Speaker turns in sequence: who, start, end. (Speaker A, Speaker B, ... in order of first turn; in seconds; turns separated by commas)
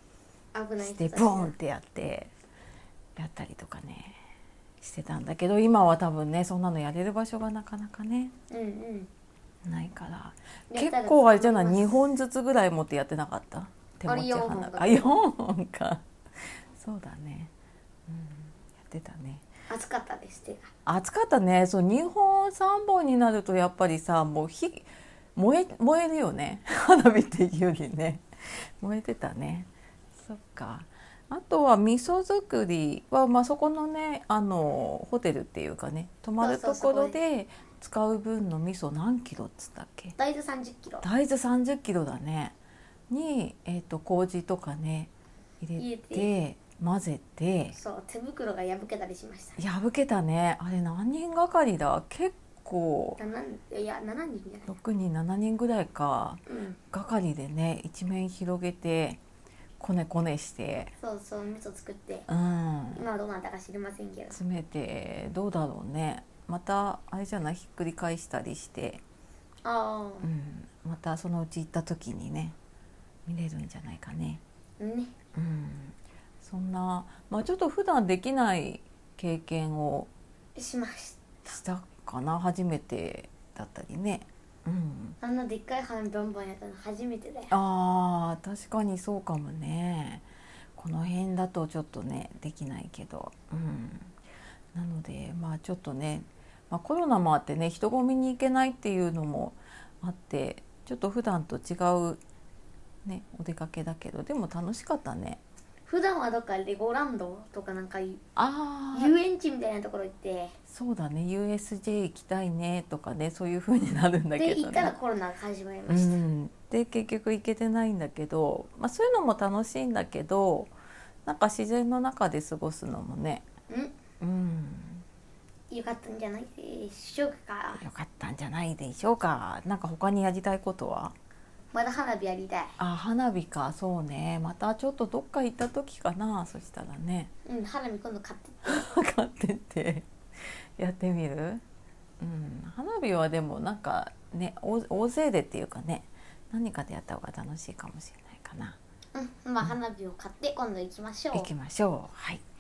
Speaker A: 0.5-1.5, Speaker B: 0.8-2.3, Speaker B: 3.2-4.2, Speaker B: 4.8-8.3, Speaker A: 8.5-9.1, Speaker B: 9.7-16.0, Speaker A: 10.7-12.0, Speaker A: 14.1-15.2, Speaker B: 16.7-17.5, Speaker B: 18.1-19.4, Speaker A: 19.7-20.7, Speaker B: 20.9-40.2, Speaker A: 36.4-37.2, Speaker A: 40.2-41.0, Speaker B: 41.0-42.5, Speaker B: 43.1-47.8, Speaker A: 45.8-46.3, Speaker A: 47.7-49.6, Speaker B: 49.6-53.2, Speaker A: 53.2-54.7, Speaker B: 54.7-56.4, Speaker A: 56.5-56.8, Speaker B: 56.9-59.2, Speaker B: 59.8-60.9, Speaker A: 61.0-62.3, Speaker B: 62.3-63.0, Speaker A: 63.0-64.4, Speaker B: 64.3-69.0, Speaker A: 69.6-70.3, Speaker B: 70.2-72.6, Speaker B: 73.3-74.4, Speaker A: 74.8-75.2, Speaker B: 75.3-80.1, Speaker A: 80.6-81.5, Speaker B: 81.5-85.2, Speaker A: 85.2-87.5, Speaker B: 87.5-90.2, Speaker B: 90.8-94.1, Speaker B: 94.7-102.2, Speaker B: 103.0-105.4, Speaker A: 105.9-108.2, Speaker B: 108.4-109.2, Speaker A: 108.9-110.5, Speaker B: 110.7-114.9, Speaker A: 114.4-116.2, Speaker B: 115.9-120.7, Speaker B: 121.2-123.5, Speaker A: 123.7-124.0, Speaker B: 124.2-125.0, Speaker A: 125.7-127.8, Speaker B: 127.8-131.2, Speaker A: 131.7-132.8, Speaker B: 132.8-137.3, Speaker A: 137.4-138.9, Speaker B: 138.7-140.1, Speaker B: 140.8-141.6, Speaker B: 142.2-148.8, Speaker A: 149.1-151.5, Speaker B: 151.3-152.4